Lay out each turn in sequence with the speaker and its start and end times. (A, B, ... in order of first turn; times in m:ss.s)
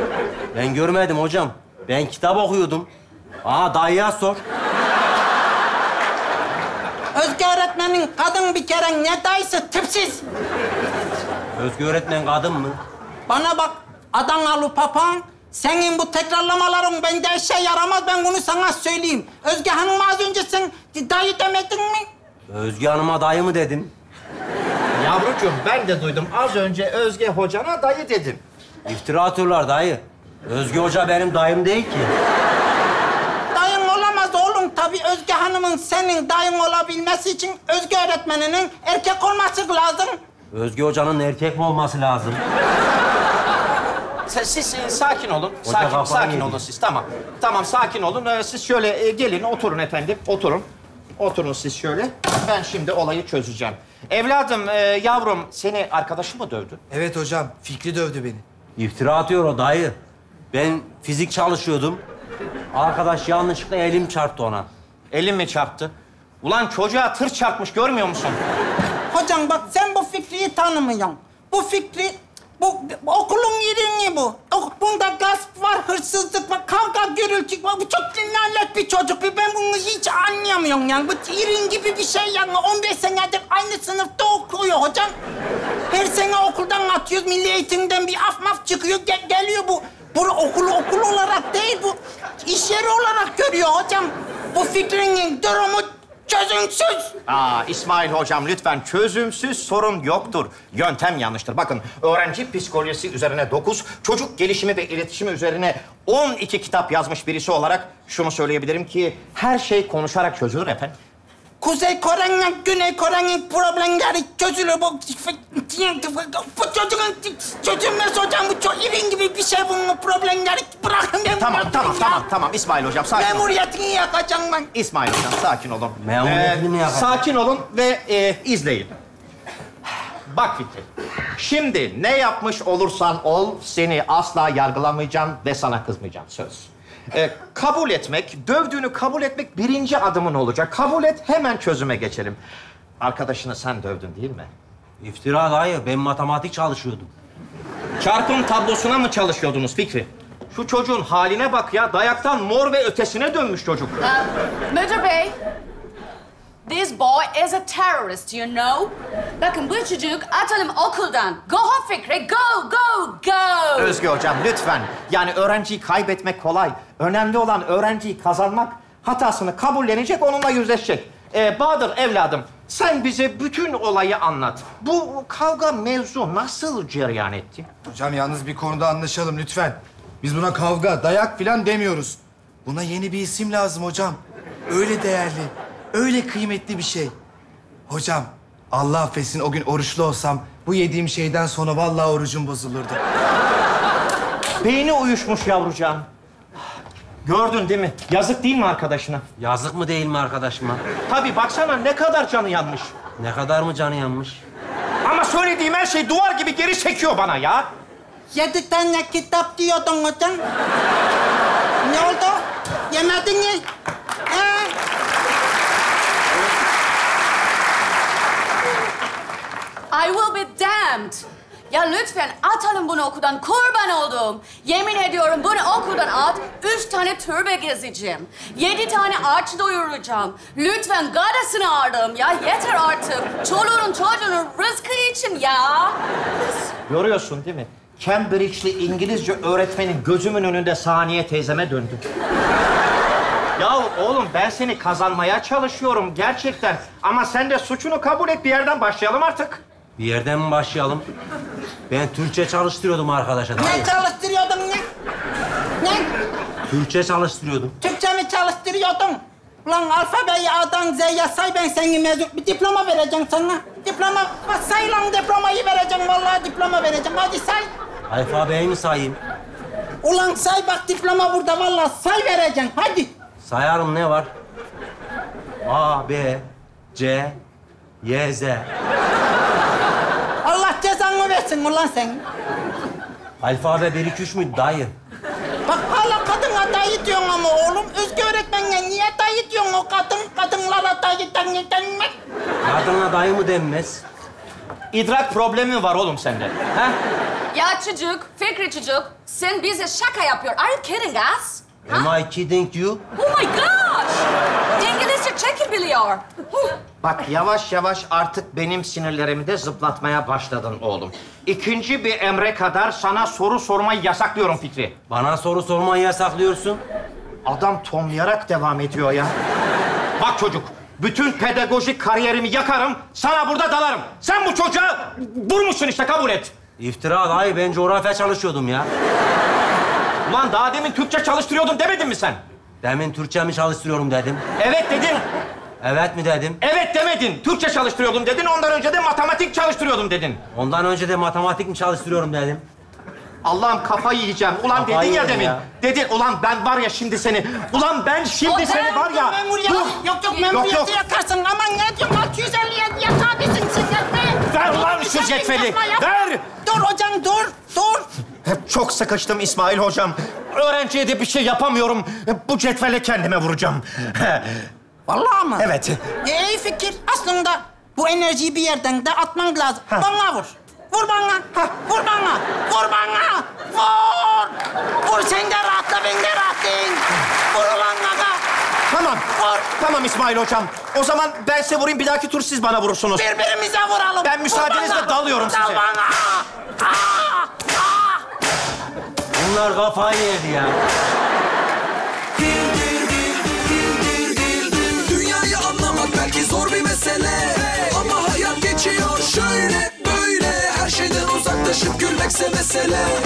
0:00.5-0:02.9 A
0:03.4-0:04.4 A
0:07.1-0:10.2 B
0:11.6-0:12.8 A
0:13.3-0:22.1 B
0:22.5-0:23.9 A
0:25.0-0:28.4 C
0:28.8-0:32.1 A
0:33.5-0:40.2 B
0:40.5-0:42.4 A
0:44.3-0:56.8 C
0:45.6-0:46.6 A
0:56.9-0:58.4 D
0:58.8-1:00.0 A
1:00.5-1:02.0 A
1:02.7-1:04.7 A
1:05.1-1:08.4 C
1:09.1-1:25.1 B
1:25.9-1:37.1 B
1:37.3-1:50.9 C
1:51.6-2:02.2 B
2:01.4-2:03.4 C
2:03.1-2:04.7 B
2:04.7-2:08.9 C
2:06.0-2:07.2 A
2:10.3-2:22.4 C
2:23.0-2:24.5 C
2:25.0-2:27.1 A
2:28.0-2:34.0 C
2:34.0-2:35.4 E
2:36.6-2:44.0 E
2:43.8-2:57.7 C
2:57.9-3:07.1 D
3:07.9-3:13.0 D
3:14.6-3:16.1 C
3:17.2-3:19.2 C
3:19.4-3:20.8 A
3:21.1-3:23.0 C
3:23.2-3:24.4 A
3:25.0-3:27.7 C
3:28.3-3:30.4 B
3:31.8-3:33.6 B
3:34.3-3:34.7 B
3:39.9-3:56.0 E
3:56.9-4:02.0 C
4:03.6-4:09.6 C
4:10.0-4:11.0 A
4:11.9-4:13.9 A
4:13.6-4:14.8 B
4:15.8-4:16.0 B
4:16.7-4:17.7 A
4:17.8-4:27.6 B
4:28.1-4:29.2 A
4:30.0-4:33.1 B
4:33.4-4:34.3 A
4:35.6-4:37.4 A
4:38.0-4:38.7 A
4:40.4-4:42.2 B
4:43.4-4:44.9 A
4:45.6-4:52.1 B
4:52.6-4:54.0 A
4:54.9-4:57.0 C
4:57.5-5:02.1 E
5:01.9-5:03.0 A
5:03.1-5:04.2 E
5:04.8-5:06.8 E
5:07.0-5:15.0 C
5:15.1-5:16.8 A
5:17.4-5:19.3 C
5:20.2-5:26.5 C
5:26.8-5:28.9 A
5:30.2-5:32.4 C
5:32.8-5:34.4 A
5:34.6-5:35.2 C
5:35.8-5:36.6 A
5:36.6-5:40.4 C
5:40.5-5:42.6 A
5:43.4-5:50.0 C
5:44.7-5:45.6 A
5:48.4-5:58.1 B
5:50.2-5:50.5 E
5:50.5-5:51.0 C
5:54.5-5:56.4 C
5:58.4-6:04.7 C
6:05.1-6:05.7 B
6:05.6-6:06.0 C
6:06.2-6:18.4 B
6:18.9-6:23.2 C
6:19.4-6:19.6 B
6:23.2-6:28.1 B
6:24.2-6:25.8 C
6:29.3-6:30.8 A
6:35.4-6:35.8 F
6:36.5-6:37.0 F
6:38.3-6:39.0 F
6:41.0-6:42.5 F